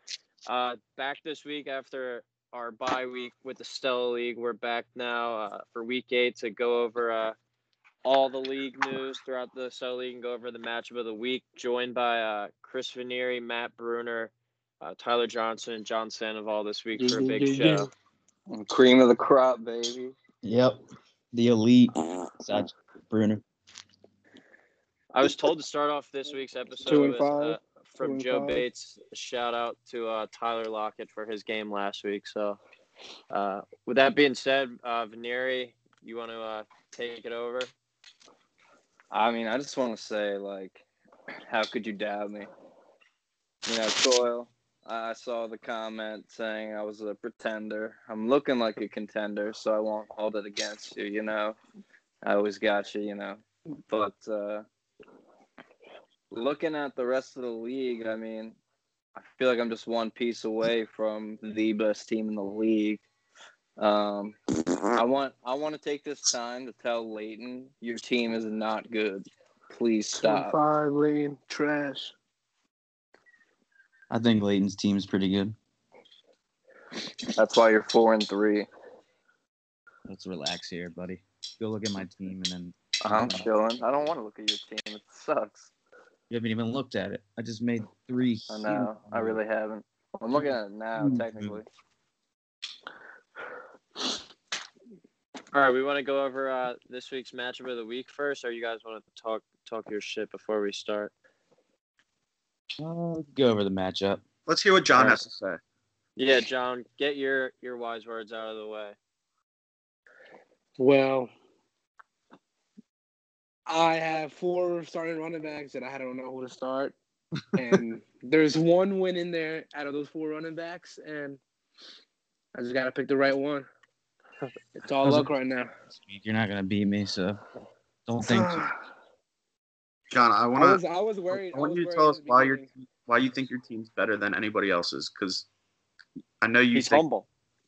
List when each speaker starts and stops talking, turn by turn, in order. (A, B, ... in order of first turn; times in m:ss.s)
0:00.4-0:07.4 A
0:08.0-0:17.9 A
0:16.9-0:17.9 B
0:18.5-0:20.1 C
0:20.4-0:20.8 D
0:21.3-0:23.4 D
0:25.1-0:32.6 A
0:26.8-0:28.6 B
0:33.3-0:37.7 A
0:39.1-0:40.8 C
0:41.5-0:42.5 C
0:43.6-0:51.6 C
0:52.2-0:54.6 C
0:56.3-0:58.6 C
0:59.2-1:03.0 C
1:03.8-1:04.4 C
1:04.9-1:10.5 C
1:10.2-1:12.1 B
1:14.1-1:15.5 D
1:17.3-1:18.7 C
1:20.0-1:23.4 D
1:23.0-1:25.7 C
1:26.3-1:29.4 D
1:28.5-1:31.6 C
1:30.4-1:31.6 D
1:35.5-1:41.1 A
1:42.8-1:44.2 D
1:44.4-1:45.6 E
1:44.9-1:45.2 A
1:46.2-1:49.0 A
1:50.8-1:51.3 B
1:53.7-1:57.0 B
1:57.6-2:01.4 B
2:02.5-2:03.7 B
2:04.8-2:05.7 B
2:05.0-2:05.3 D
2:05.9-2:07.4 D
2:08.0-2:08.6 D
2:08.2-2:08.7 B
2:10.1-2:15.4 E
2:10.5-2:12.7 B
2:16.4-2:17.0 E
2:16.7-2:17.3 A